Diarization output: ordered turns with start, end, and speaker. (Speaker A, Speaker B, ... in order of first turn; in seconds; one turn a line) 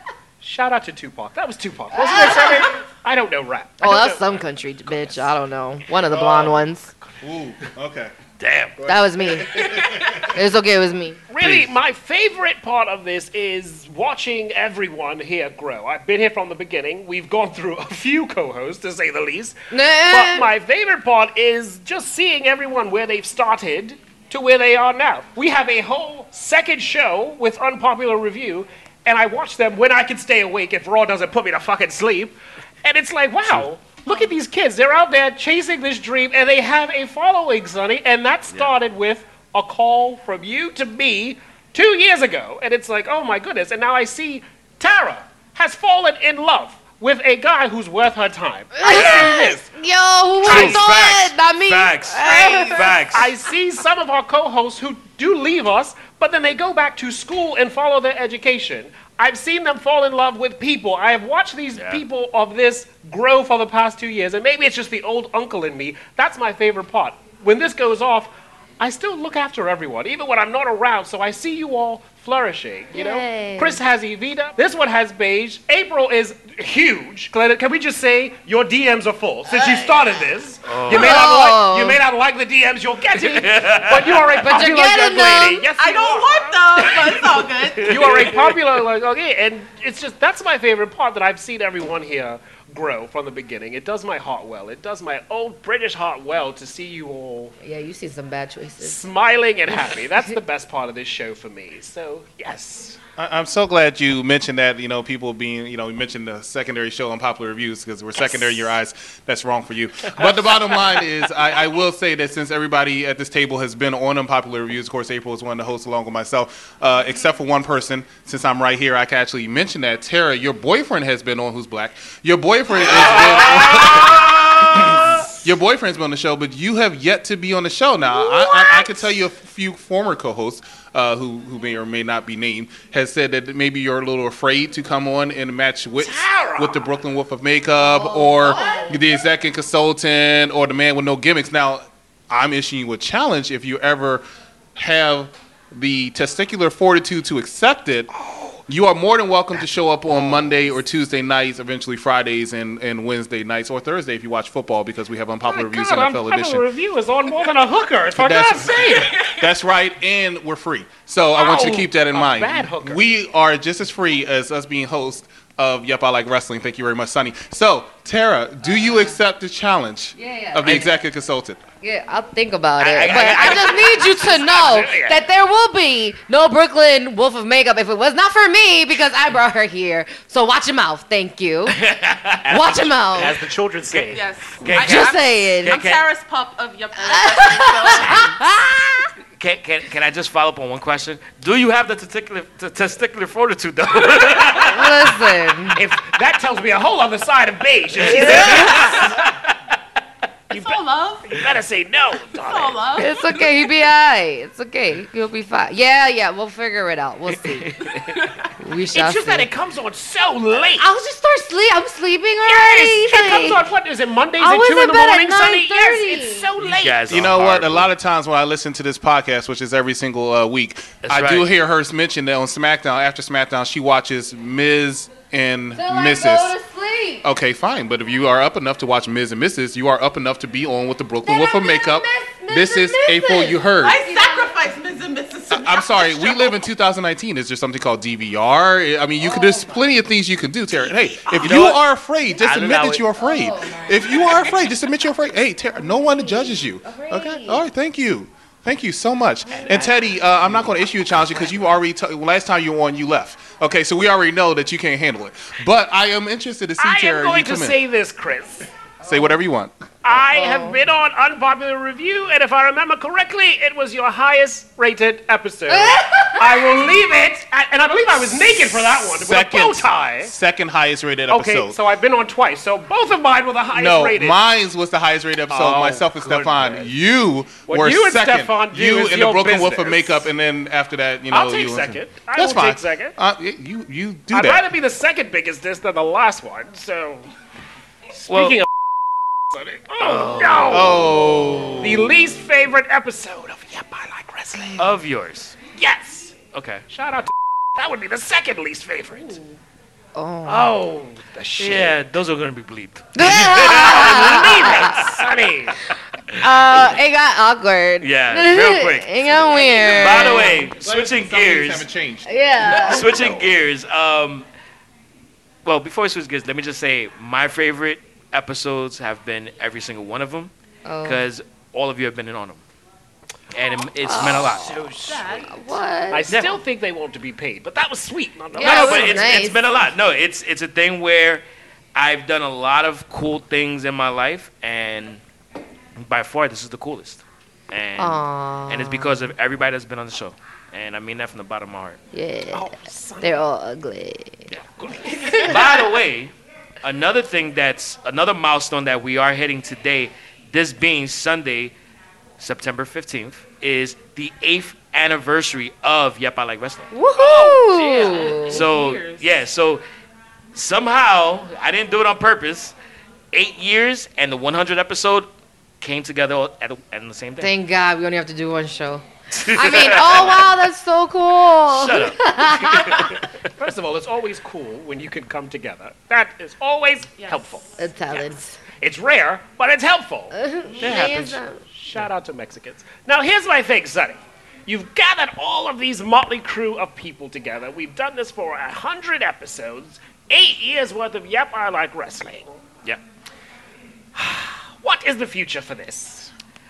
Speaker A: 0.4-4.2
Speaker B: 1.9-2.8
Speaker B: 3.8-6.9
Speaker A: 5.0-5.2
Speaker C: 6.1-6.6
Speaker C: 7.2-8.1
Speaker D: 8.4-8.8
Speaker C: 8.8-10.2
Speaker B: 8.9-9.7
Speaker B: 10.3-11.2
Speaker A: 11.3-49.6
Speaker C: 11.4-11.7
Speaker B: 19.7-20.5
Speaker B: 48.8-53.1
Speaker D: 48.9-49.3
Speaker D: 50.4-53.3
Speaker A: 50.4-50.8
Speaker E: 52.3-52.6
Speaker A: 53.1-97.5
Speaker D: 61.8-62.0
Speaker B: 72.9-73.8
Speaker D: 80.6-81.3
Speaker B: 80.9-82.0
Speaker D: 83.3-84.4
Speaker B: 84.4-85.7
Speaker E: 85.7-88.3
Speaker D: 88.0-88.5
Speaker B: 97.6-99.0
Speaker A: 98.8-103.0
Speaker C: 103.2-124.3
Speaker D: 122.8-125.2
Speaker C: 124.9-144.2
Speaker A: 136.0-136.9
Speaker B: 137.8-138.9
Speaker A: 138.4-139.0
Speaker C: 144.8-148.1
Speaker A: 148.2-148.6
Speaker C: 148.7-156.7
Speaker A: 155.4-159.2
Speaker C: 158.2-171.6
Speaker A: 161.3-163.0
Speaker B: 168.7-169.2
Speaker B: 170.2-170.9
Speaker D: 170.6-170.9
Speaker B: 171.8-181.8
Speaker D: 172.8-174.2
Speaker A: 173.1-175.2
Speaker D: 181.7-182.4
Speaker A: 182.5-184.2
Speaker B: 182.5-183.4
Speaker D: 183.9-186.1
Speaker E: 184.1-188.3
Speaker B: 184.7-185.8
Speaker B: 187.0-189.1
Speaker D: 189.4-194.9
Speaker B: 194.7-195.8
Speaker A: 195.7-199.2
Speaker B: 198.1-198.8
Speaker D: 198.1-199.5
Speaker A: 200.5-202.8
Speaker E: 200.5-201.3
Speaker E: 202.4-203.7
Speaker B: 203.0-207.7
Speaker D: 207.6-208.0
Speaker E: 207.9-208.5
Speaker B: 208.6-209.5
Speaker A: 208.9-210.9
Speaker B: 210.8-213.6
Speaker A: 212.4-217.3
Speaker B: 214.4-216.5
Speaker D: 216.7-217.9
Speaker C: 217.1-226.6
Speaker D: 221.0-221.5
Speaker B: 225.7-227.2
Speaker C: 227.2-234.0
Speaker B: 231.2-234.6
Speaker E: 233.8-236.6
Speaker C: 235.5-257.8
Speaker B: 239.2-239.9
Speaker A: 241.2-241.5
Speaker D: 241.3-243.1
Speaker B: 243.2-244.3
Speaker B: 245.8-247.6
Speaker A: 256.8-258.7
Speaker C: 259.0-259.7
Speaker A: 260.0-270.3
Speaker B: 260.3-260.8
Speaker B: 265.7-266.9
Speaker C: 268.9-271.8
Speaker A: 271.3-274.4
Speaker C: 273.7-284.6
Speaker A: 275.5-276.9
Speaker A: 277.7-280.3
Speaker A: 281.3-283.1
Speaker A: 284.3-287.3
Speaker A: 288.2-288.7
Speaker D: 288.3-288.6
Speaker A: 289.5-291.2
Speaker D: 290.0-290.9
Speaker C: 290.7-292.2
Speaker A: 291.8-294.9
Speaker D: 294.8-295.6
Speaker A: 295.8-296.4
Speaker D: 296.5-296.8
Speaker A: 296.9-299.4
Speaker B: 300.1-300.7
Speaker A: 300.5-301.9
Speaker D: 301.6-305.1
Speaker B: 303.2-305.0
Speaker A: 303.6-305.8
Speaker B: 306.4-310.7
Speaker D: 308.0-311.9
Speaker A: 309.7-310.5
Speaker C: 310.7-312.3
Speaker B: 312.3-313.1
Speaker D: 312.8-314.5
Speaker D: 315.6-320.5
Speaker B: 320.9-321.2
Speaker D: 321.0-322.6
Speaker D: 323.5-324.8
Speaker B: 324.1-324.7
Speaker A: 324.3-325.5
Speaker E: 325.0-325.6
Speaker B: 325.5-326.3
Speaker A: 326.1-329.3
Speaker D: 326.3-326.6
Speaker B: 328.5-329.7
Speaker D: 328.6-331.4
Speaker D: 331.9-335.2
Speaker D: 336.0-342.0
Speaker B: 338.0-339.3
Speaker B: 342.1-344.4
Speaker A: 342.5-343.4
Speaker A: 344.8-345.7
Speaker D: 345.3-351.7
Speaker D: 352.4-356.9
Speaker B: 356.9-358.6
Speaker E: 357.3-359.3
Speaker D: 357.8-359.8
Speaker D: 360.5-362.8
Speaker D: 363.3-365.3
Speaker D: 365.8-367.5
Speaker B: 367.4-373.1
Speaker D: 369.3-370.5
Speaker D: 371.7-373.2
Speaker A: 373.6-377.7
Speaker E: 377.2-377.8
Speaker B: 377.8-378.6
Speaker A: 378.8-392.6
Speaker B: 380.3-381.6
Speaker D: 380.8-381.4
Speaker A: 394.1-396.3